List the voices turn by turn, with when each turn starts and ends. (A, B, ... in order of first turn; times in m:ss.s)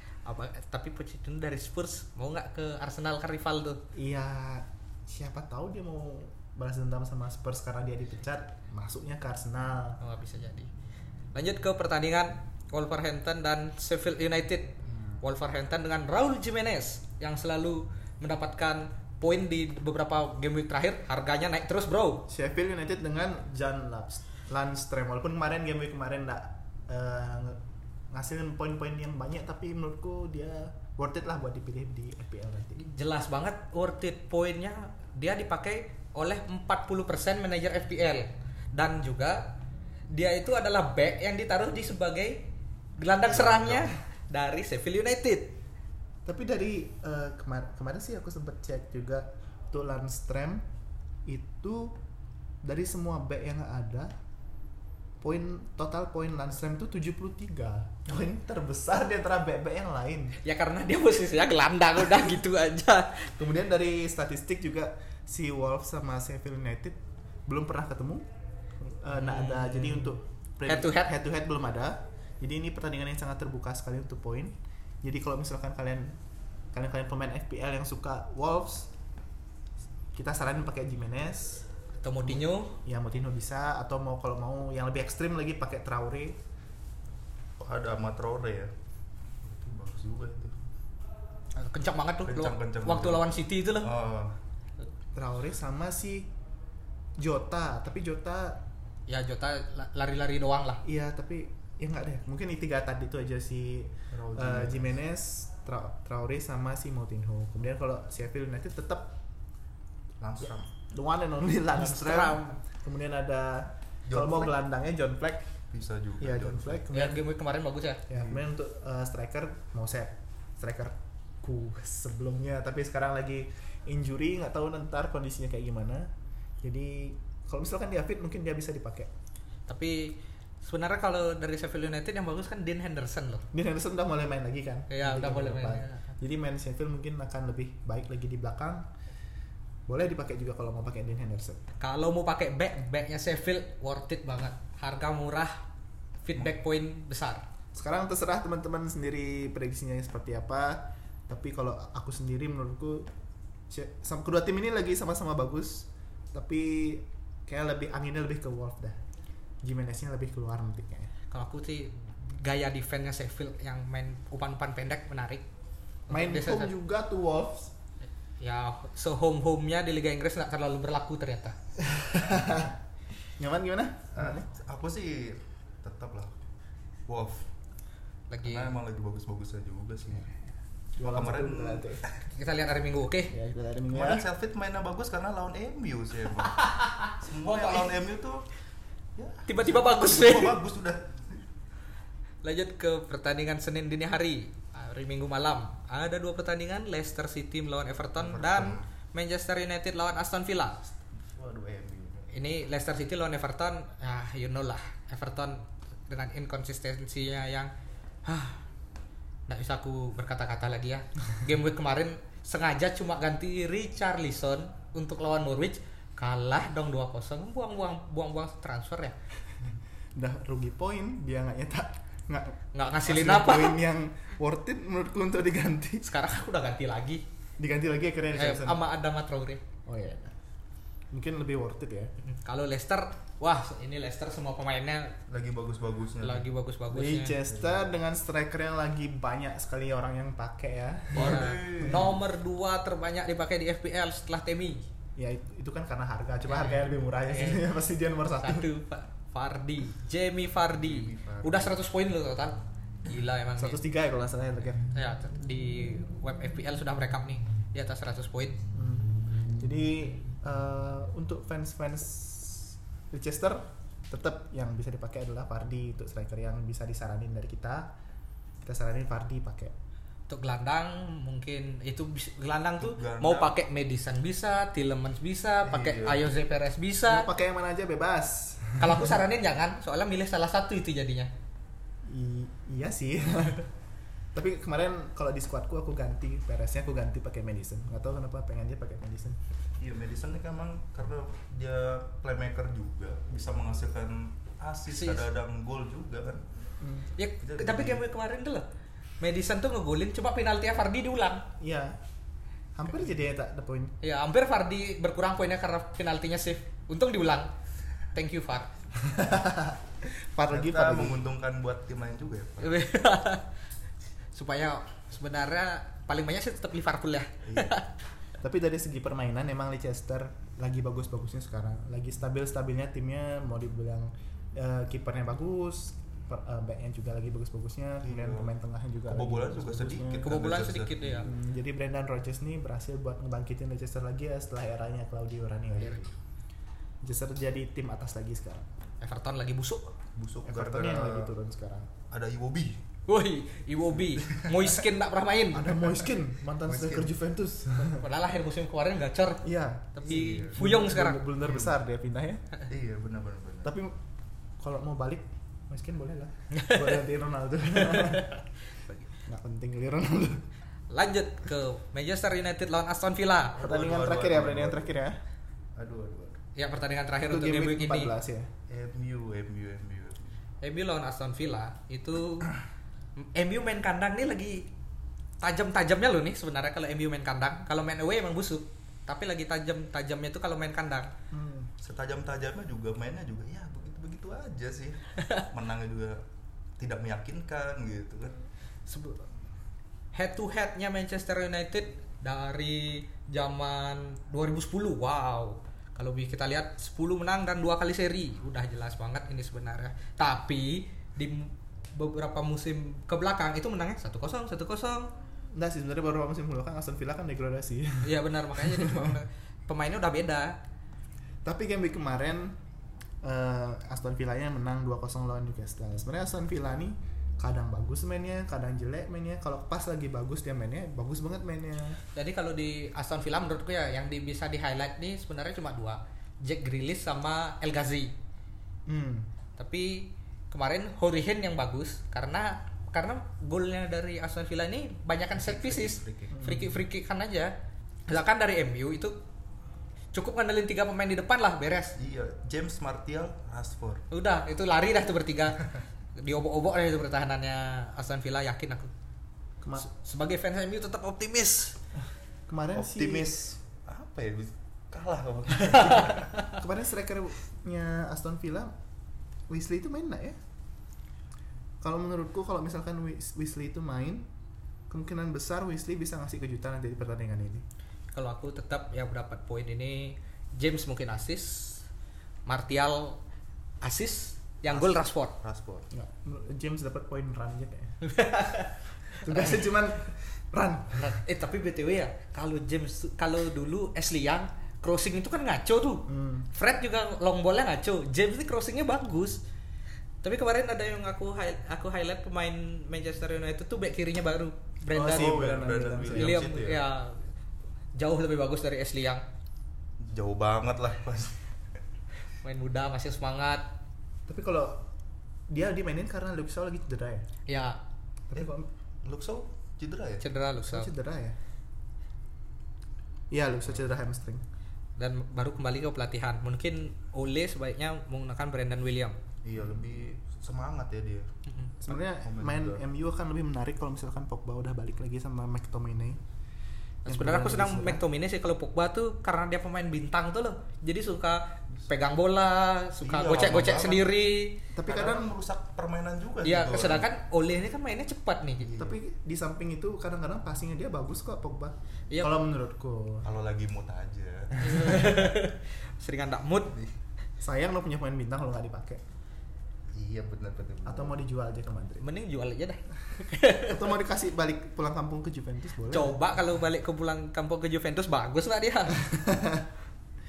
0:00.2-0:03.8 A
0:03.9-0:10.0 B
0:10.0-0:10.7 A
0:11.3-0:22.3 A
0:22.3-0:27.6 B
0:28.1-0:32.8 B
0:32.8-0:39.6 A
0:40.1-0:45.6 A
0:43.3-0:43.9 C
0:46.2-0:50.6 B
0:51.2-0:52.0 B
0:52.6-0:54.1 B
0:55.2-1:00.4 B
1:00.4-1:03.3 A
1:03.4-1:08.3 B
1:08.8-1:16.2 B
1:09.2-1:10.1 A
1:10.7-1:11.1 A
1:16.7-1:18.9 B
1:20.1-1:21.7 B
1:22.0-1:22.8 A
1:22.2-1:26.4 B
1:27.6-1:28.7 C
1:29.4-1:30.5 C
1:31.6-1:33.9 A
1:32.2-1:33.3 C
1:33.8-1:34.4 C
1:35.1-1:36.3 B
1:37.2-1:38.6 B
1:39.1-1:40.8 A
1:40.8-1:49.2 B
1:44.1-1:44.9 C
1:50.2-1:50.7 C
1:50.8-1:55.5 B
1:51.8-1:52.6 A
1:54.1-1:54.5 C
1:55.7-1:56.8 C
1:56.2-1:57.2 B
1:56.9-1:58.0 A
1:58.1-2:06.1 B
1:58.1-1:58.4 C
2:06.6-2:09.1 B
2:09.7-2:13.4 A
2:13.5-2:18.9 B
2:14.9-2:16.1 A
2:19.9-2:21.6 B
2:21.8-2:25.6 A
2:26.2-2:27.4 A
2:27.7-2:33.1 B
2:33.7-2:39.0 B
2:39.6-2:41.1 B
2:41.3-2:45.4 A
2:46.1-2:46.7 A
2:46.1-2:47.7 B
2:48.4-2:51.6 A
2:51.8-2:52.8 B
2:53.4-2:54.5 B
2:54.1-2:56.4 C
2:57.1-2:57.5 C
2:58.3-2:58.8 A
2:58.4-3:00.3 C
3:01.0-3:02.0 B
3:01.0-3:02.1 C
3:02.3-3:03.3 A
3:03.3-3:04.2 B
3:03.9-3:06.6 C
3:06.6-3:07.9 A
3:07.1-3:08.5 C
3:09.2-3:11.4 C
3:09.4-3:10.5 A
3:12.4-3:20.8 A
3:18.2-3:18.8 C
3:21.1-3:22.3 C
3:22.3-3:27.7 A
3:28.2-3:28.6 A
3:29.5-3:39.2 A
3:40.1-3:46.0 B
3:42.7-3:43.8 A
3:46.0-3:47.2 A
3:47.6-3:48.8 B
3:48.3-3:49.6 A
3:49.8-3:50.3 B
3:51.1-3:52.1 B
3:52.2-3:55.2 A
3:55.3-3:56.5 C
3:56.2-3:57.4 A
3:56.9-4:02.1 B
4:01.1-4:02.1 C
4:01.1-4:04.8 A
4:05.2-4:08.7 B
4:06.4-4:07.7 A
4:08.4-4:13.8 A
4:10.7-4:11.8 C
4:13.6-4:14.9 B
4:14.9-4:18.6 A
4:18.7-4:27.9 B
4:28.6-4:29.7 B
4:30.3-4:37.3 A
4:32.8-4:33.5 C
4:35.6-4:36.3 C
4:37.0-4:39.1 B
4:38.8-4:41.3 A
4:42.0-4:43.7 B
4:44.3-4:49.4 B
4:49.8-4:56.4 C
4:54.9-4:55.2 A
4:56.8-4:57.1 B
4:57.2-4:58.6 A
4:57.4-4:58.0 C
4:59.2-5:01.4 A
5:01.6-5:02.0 B
5:02.8-5:03.9 B
5:04.0-5:07.5 A
5:08.1-5:08.7 A
5:09.0-5:11.2 B
5:10.5-5:12.7 C
5:12.6-5:13.4 A
5:14.3-5:17.9 A
5:17.4-5:17.7 C
5:18.4-5:30.4 B
5:28.0-5:28.5 C
5:29.0-5:31.3 C
5:30.2-5:31.3 A
5:31.2-5:36.1 B
5:37.0-5:38.7 B
5:39.0-5:39.9 A
5:40.2-5:41.3 C
5:40.4-5:41.9 B
5:42.1-5:42.8 C
5:43.1-5:45.8 A
5:44.1-5:44.7 C
5:45.5-5:48.0 B
5:46.6-5:47.1 C
5:47.8-5:51.3 A
5:49.4-5:52.4 B
5:50.1-5:50.6 C
5:51.4-5:51.7 C
5:52.7-5:53.7 C
5:53.6-5:53.9 B
5:54.6-5:58.4 B
5:56.5-5:57.0 A
5:57.9-5:58.3 A
5:59.2-6:00.4 B
6:00.9-6:03.6 A
6:03.6-6:05.2 B
6:03.6-6:04.9 C
6:05.8-6:06.4 C
6:06.6-6:08.1 A
6:07.2-6:08.5 B
6:08.7-6:10.4 C
6:10.6-6:12.5 A
6:13.2-6:14.7 A
6:15.4-6:21.1 A
6:21.3-6:21.7 B
6:21.8-6:26.2 C
6:25.2-6:25.4 A
6:26.8-6:28.4 C
6:28.9-6:29.2 A
6:30.1-6:45.1 A
6:45.5-6:49.2 B
6:48.0-6:50.6 A
6:51.4-6:52.6 B
6:53.2-7:02.0 B
7:02.1-7:08.1 A
7:08.8-7:09.3 B
7:09.6-7:17.5 A
7:15.3-7:16.4 C
7:16.3-7:16.8 B
7:18.1-7:19.2 A
7:20.1-7:22.0 A
7:22.0-7:24.0 C
7:24.1-7:28.9 A
7:29.6-7:29.9 B
7:29.8-7:31.8 A
7:32.5-7:33.3 B
7:32.7-7:36.4 C
7:35.7-7:36.1 A
7:36.5-7:38.7 B
7:39.5-7:40.4 B
7:41.8-7:44.3 B
7:44.9-7:47.6 B
7:48.1-7:51.8 A
7:52.4-7:53.2 A
7:53.8-7:55.3 A
7:54.7-7:55.9 C
7:55.9-7:58.0 B
7:58.0-7:58.7 A
7:59.1-8:01.1 B
7:59.2-7:59.6 A
8:01.0-8:09.4 A
8:06.1-8:06.5 B
8:10.2-8:15.4 A
8:14.9-8:16.4 B
8:15.0-8:16.8 C
8:16.1-8:17.2 A
8:17.9-8:19.2 A
8:20.0-8:21.4 C
8:22.4-8:23.7 A
8:24.3-8:24.8 B
8:25.5-8:27.3 B
8:27.5-8:27.8 A
8:28.3-8:28.7 B
8:29.0-8:30.2 C
8:30.2-8:30.9 A
8:30.6-8:31.4 B
8:33.3-8:34.4 B
8:35.0-8:39.2 A
8:39.4-8:41.3 C
8:41.8-8:46.2 B
8:41.8-8:42.8 C
8:47.0-8:54.6 A
8:47.1-8:48.0 B
8:53.0-8:54.1 C
8:54.7-8:55.3 B
8:54.8-8:57.0 C
8:56.4-8:58.7 A
8:58.6-8:59.0 C
8:58.8-9:03.3 B
9:02.1-9:02.4 A
9:03.2-9:05.1 C
9:04.6-9:06.8 A
9:07.4-9:09.0 B
9:09.9-9:11.2 C
9:10.8-9:12.0 B
9:12.0-9:13.9 A
9:13.6-9:16.2 B
9:15.9-9:19.0 A
9:19.0-9:19.7 B